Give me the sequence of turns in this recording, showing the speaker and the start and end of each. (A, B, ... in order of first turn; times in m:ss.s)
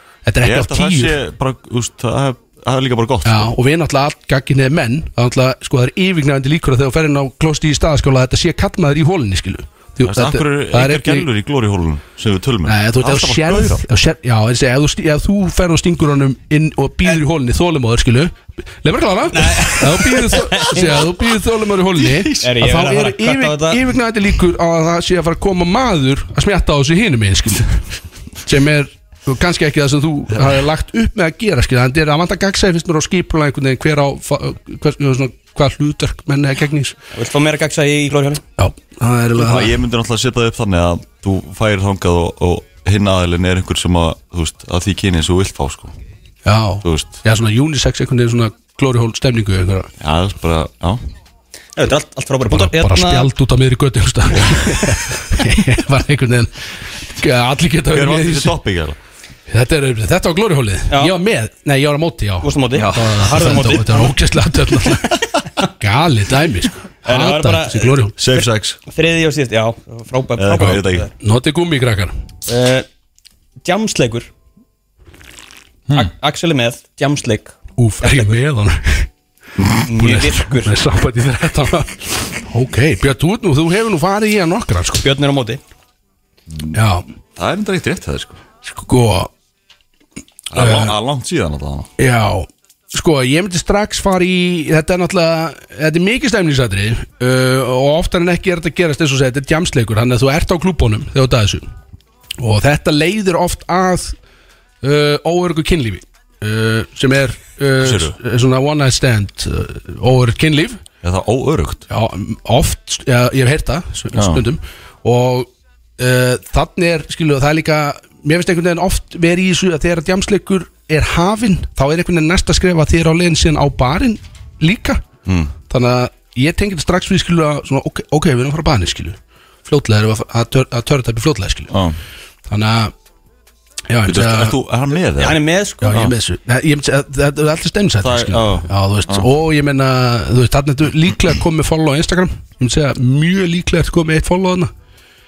0:00.2-0:01.2 A
0:00.4-0:03.5 B
0:03.2-0:11.3 A
0:10.0-0:13.8 B
0:12.6-0:27.7 A
0:19.3-0:21.0 C
0:21.9-0:22.5 B
0:22.4-0:23.8 C
0:28.4-0:37.0 A
0:37.1-0:38.4 C
0:38.6-0:39.8 A
0:39.3-0:45.9 B
0:46.4-0:49.9 A
0:46.8-0:47.2 B
0:50.0-0:51.0 B
0:51.8-0:53.3 C
0:52.5-0:56.5 A
0:57.2-0:58.5 A
0:57.9-0:59.0 B
0:59.5-1:05.2 A
1:02.4-1:04.1 C
1:02.7-1:03.5 B
1:05.8-1:08.1 A
1:07.0-1:11.1 C
1:08.2-1:08.8 B
1:10.4-1:11.1 B
1:11.2-1:12.1 A
1:12.5-1:12.8 C
1:13.6-1:14.3 C
1:15.9-1:18.2 C
1:17.8-1:19.1 A
1:19.8-1:20.7 C
1:20.0-1:25.0 A
1:25.0-1:25.6 C
1:26.7-1:27.0 A
1:27.4-1:28.4 B
1:28.6-1:29.3 A
1:30.5-1:31.9 B
1:30.6-1:30.9 A
1:32.0-1:41.7 A
1:42.4-1:44.1 A
1:44.8-1:50.8 A
1:47.8-1:48.2 B
1:51.0-1:51.8 B
1:51.9-2:05.0 A
1:54.1-1:54.4 B
2:05.2-2:05.5 B
2:05.7-2:11.7 A
2:11.7-2:12.0 B
2:12.5-2:12.9 A
2:13.9-2:14.6 A
2:14.0-2:16.1 B
2:15.2-2:16.0 C
2:15.8-2:24.7 A
2:18.0-2:19.3 B